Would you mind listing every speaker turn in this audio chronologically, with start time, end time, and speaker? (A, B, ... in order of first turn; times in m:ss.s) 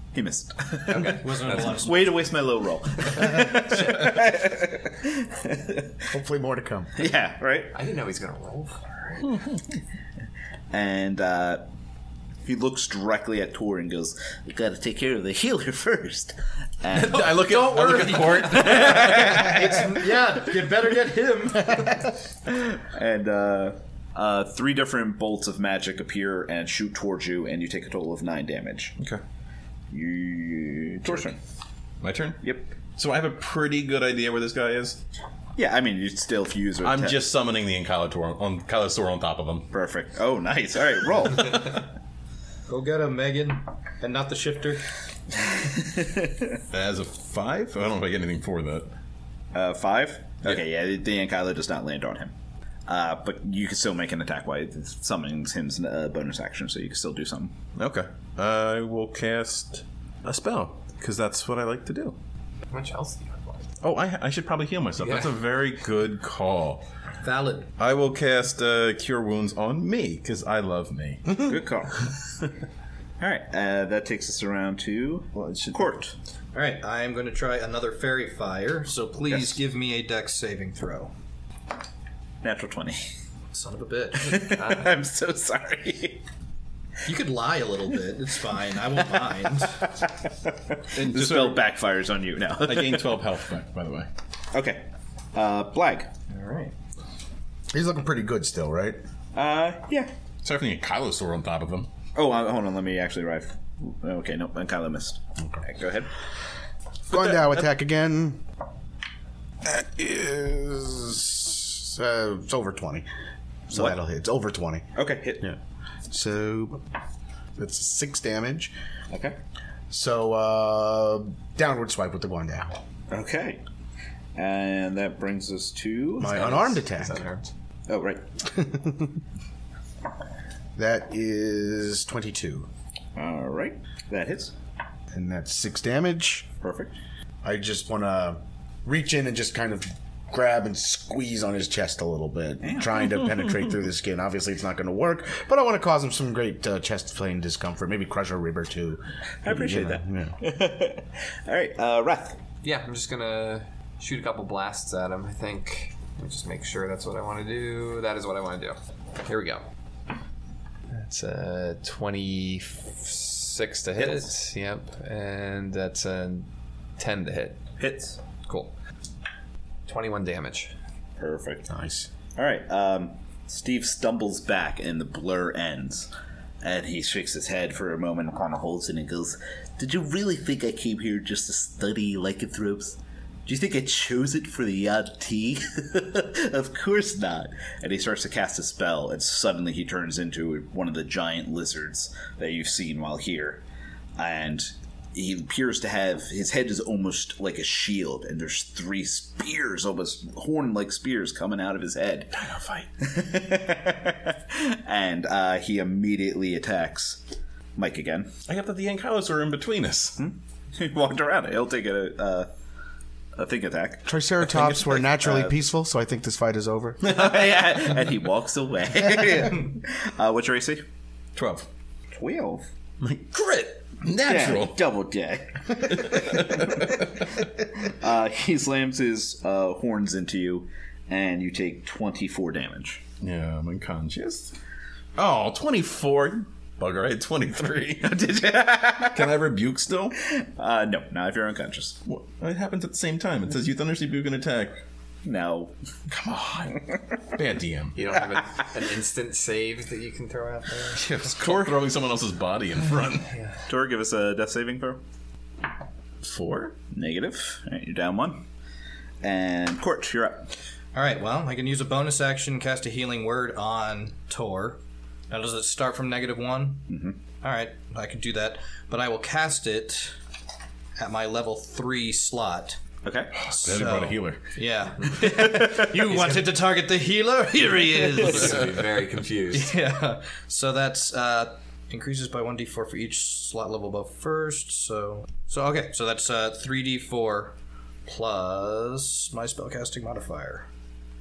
0:00.1-0:06.0 A
0:00.9-0:01.9 B
0:00.9-0:02.2 C
0:06.1-0:07.1 D
0:07.0-0:07.7 A
0:07.7-0:09.4 B
0:09.2-0:09.6 E
0:10.7-0:11.6 A
0:12.4-0:19.9 A
0:16.9-0:19.6 E
0:17.3-0:22.1 C
0:22.5-0:28.9 A
0:29.9-0:31.4 A
0:32.0-0:32.4 E
0:32.4-0:32.7 A
0:32.9-0:35.0 E
0:35.6-0:37.2 A
0:36.8-0:39.7 E
0:39.7-0:41.9 A
0:42.7-0:44.9 C
0:45.6-0:46.6 A
0:46.7-0:48.9 E
0:49.5-0:52.3 A
0:52.9-0:57.6 A
0:57.8-1:02.2 E
1:02.7-1:03.7 B
1:03.8-1:06.8 E
1:05.0-1:05.3 B
1:07.2-1:07.7 C
1:07.8-1:11.4 E
1:11.3-1:12.1 A
1:13.2-1:16.1 A
1:15.3-1:15.9 E
1:16.5-1:21.1 C
1:19.3-1:19.6 A
1:22.4-1:23.1 A
1:23.5-1:24.5 C
1:24.1-1:26.2 A
1:24.6-1:24.9 B
1:27.0-1:29.9 C
1:29.6-1:33.2 A
1:30.9-1:31.6 E
1:32.6-1:34.1 E
1:34.5-1:36.1 A
1:36.3-1:36.7 C
1:37.7-1:39.0 D
1:39.3-1:40.1 A
1:40.4-1:41.9 E
1:42.1-1:46.1 A
1:47.1-1:48.4 D
1:49.6-1:53.1 D
1:53.7-1:54.9 D
1:54.9-1:55.5 A
1:56.1-1:56.8 D
1:57.6-1:58.7 D
1:59.1-1:59.4 A
1:59.9-2:02.8 D
2:03.1-2:03.6 A
2:04.4-2:06.4 A
2:06.2-2:07.2 D
2:06.2-2:07.5 B
2:07.9-2:08.3 A
2:08.4-2:09.2 D
2:10.8-2:12.7 D
2:13.2-2:14.5 A
2:15.1-2:16.5 D
2:16.6-2:16.9 A
2:17.4-2:30.4 D
2:22.6-2:23.0 A
2:29.4-2:32.4 A
2:32.6-2:39.6 B
2:40.9-2:47.6 B
2:44.0-2:44.3 A
2:47.8-2:48.2 A
2:48.4-2:48.7 B
2:49.8-2:50.7 B
2:51.2-2:51.7 A
2:51.7-2:52.1 D
2:52.4-2:56.1 A
2:56.6-3:13.6 A
3:14.2-3:22.4 A
3:22.3-3:22.9 E
3:23.0-3:27.2 A
3:27.8-3:28.3 A
3:28.5-3:30.2 E
3:30.2-3:32.5 A
3:33.4-3:35.5 A
3:34.0-3:37.1 D
3:37.0-3:40.8 A
3:41.4-3:41.7 E
3:42.1-3:42.7 A
3:43.0-3:44.8 E
3:44.2-3:53.0 A
3:45.8-3:47.3 E
3:53.2-3:54.5 E
3:55.2-3:58.3 E
3:58.0-3:59.4 A
3:59.0-4:00.2 E
4:00.2-4:02.0 A
4:02.0-4:04.8 E
4:05.2-4:05.7 A
4:06.1-4:08.0 E
4:07.9-4:11.1 B
4:11.0-4:13.3 E
4:13.7-4:15.0 A
4:16.2-4:16.8 E
4:16.9-4:18.4 A
4:19.2-4:20.5 A
4:20.9-4:26.8 C
4:26.9-4:27.2 A
4:27.4-4:30.2 C
4:31.0-4:32.8 C
4:33.0-4:33.3 A
4:33.3-4:34.5 E
4:33.5-4:38.8 C
4:35.5-4:35.9 A
4:38.1-4:39.7 B
4:39.5-4:47.5 C
4:48.0-4:50.7 C